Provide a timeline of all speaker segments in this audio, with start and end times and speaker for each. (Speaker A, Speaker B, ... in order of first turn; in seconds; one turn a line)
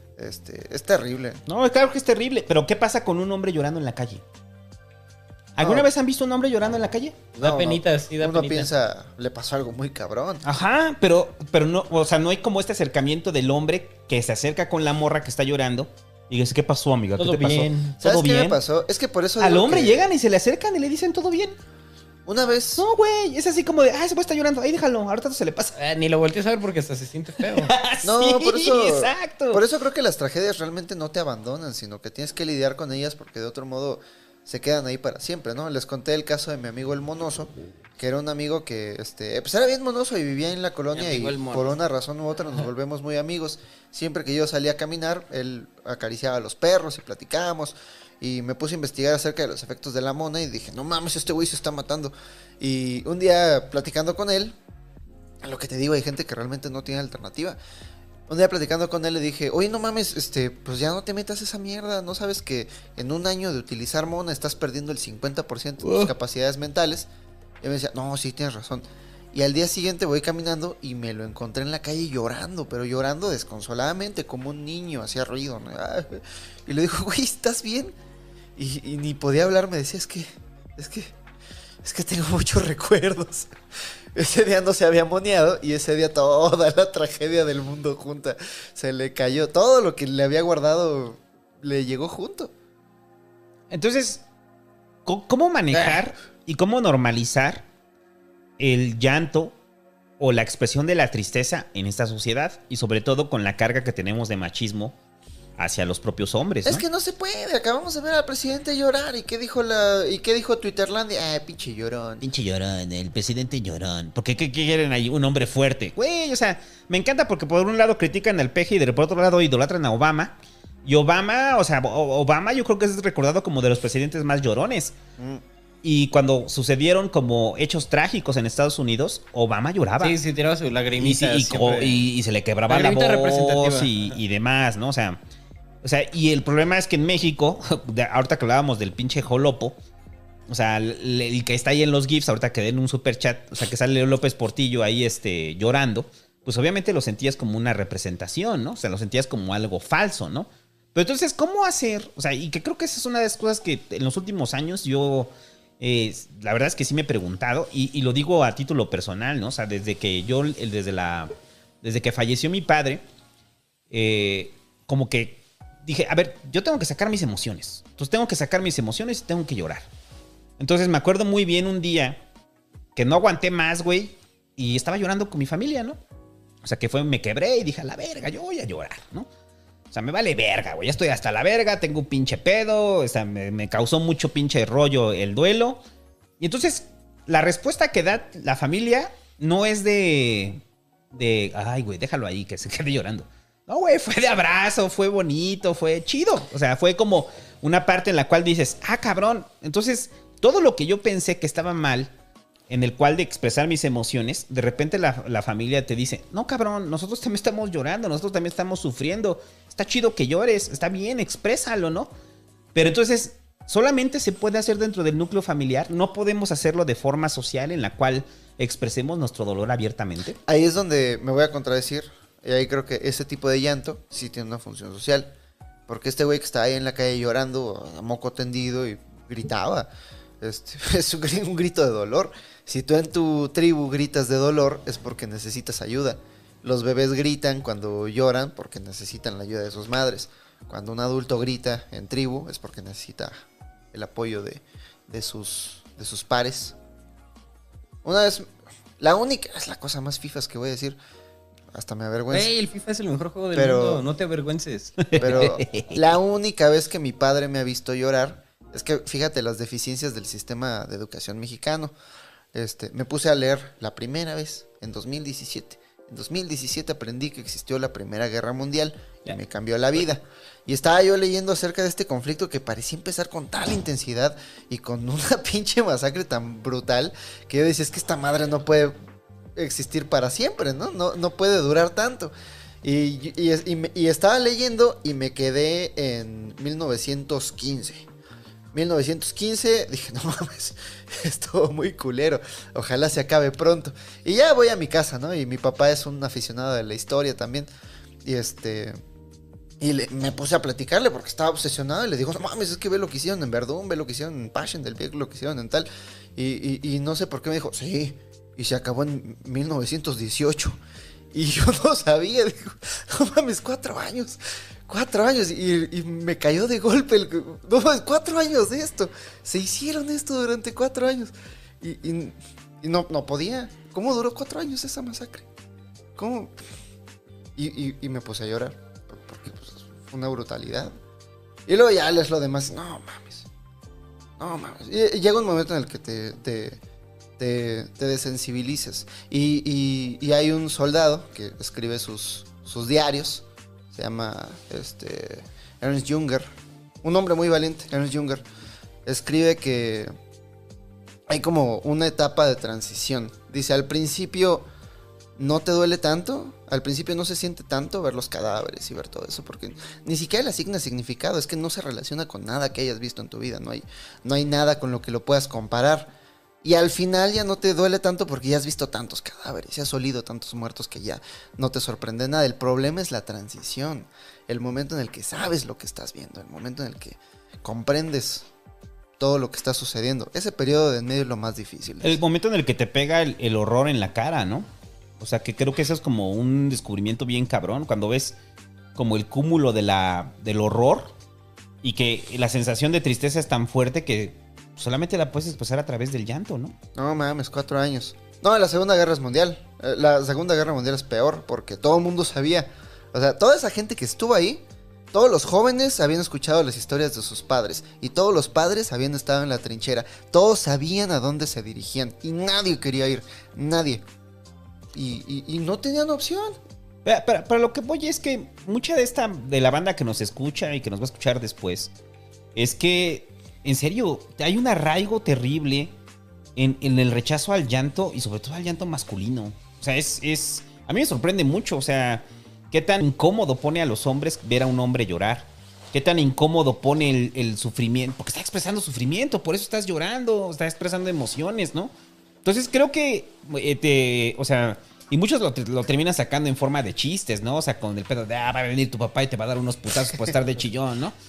Speaker A: 0.2-1.4
Speaker B: 1.5-4.2
Speaker B: 5.6-7.3
Speaker A: 5.6-5.9
Speaker C: 7.3-8.7
Speaker A: 7.4-10.4
Speaker B: 10.4-18.6
Speaker C: 17.2-18.0
Speaker A: 18.0-20.1
Speaker B: 19.4-21.6
Speaker A: 22.3-22.9
Speaker B: 22.8-25.8
Speaker C: 25.8-27.7
Speaker B: 27.4-29.6
Speaker A: 28.0-54.5
Speaker C: 40.9-41.8
Speaker A: 55.4-57.6
Speaker A: 58.3-67.1
Speaker B: 65.8-66.1
Speaker A: 67.6-77.9
Speaker A: 78.6-81.1
Speaker A: 81.8-83.5
Speaker A: 84.2-92.5
Speaker B: 93.7-94.2
Speaker B: 95.1-97.7
Speaker C: 95.7-96.0
Speaker B: 98.6-99.5
Speaker B: 100.2-104.9
Speaker B: 105.6-106.8
Speaker A: 106.6-112.3
Speaker B: 112.2-125.0
Speaker A: 125.2-125.4
Speaker B: 125.8-130.2
Speaker C: 130.0-132.1
Speaker B: 130.9-135.2
Speaker C: 132.7-134.2
Speaker B: 135.8-139.8
Speaker B: 140.5-161.3
Speaker B: 161.8-163.0
Speaker B: 163.9-169.8
Speaker B: 170.6-172.2
Speaker B: 172.9-176.0
Speaker B: 176.6-179.3
Speaker B: 179.9-185.8
Speaker B: 186.4-190.6
Speaker B: 191.1-202.1
Speaker B: 202.7-212.1
Speaker B: 212.8-220.4
Speaker A: 220.4-225.3
Speaker A: 225.9-229.9
Speaker A: 230.4-243.3
Speaker A: 243.9-246.8
Speaker A: 248.0-248.5
Speaker A: 249.0-251.0
Speaker A: 251.7-252.5
Speaker C: 252.3-255.2
Speaker A: 253.5-254.1
Speaker B: 255.0-256.0
Speaker A: 255.1-261.9
Speaker A: 262.5-278.9
Speaker A: 279.6-288.1
Speaker A: 288.7-297.7
Speaker A: 298.2-299.0
Speaker A: 299.8-310.8
Speaker A: 311.3-325.5
Speaker A: 326.2-326.6
Speaker A: 327.6-330.9
Speaker A: 331.7-333.5
Speaker A: 334.4-336.8
Speaker A: 337.4-346.5
Speaker A: 347.0-348.4
Speaker A: 349.1-350.1
Speaker A: 351.3-354.6
Speaker A: 355.4-366.1
Speaker A: 366.6-378.5
Speaker A: 379.2-382.2
Speaker B: 382.0-384.7
Speaker B: 385.2-388.4
Speaker B: 388.9-391.1
Speaker B: 391.8-396.8
Speaker A: 396.9-414.0
Speaker A: 414.9-416.6
Speaker B: 417.1-421.9
Speaker B: 422.6-425.9
Speaker B: 426.6-441.9
Speaker B: 442.4-451.1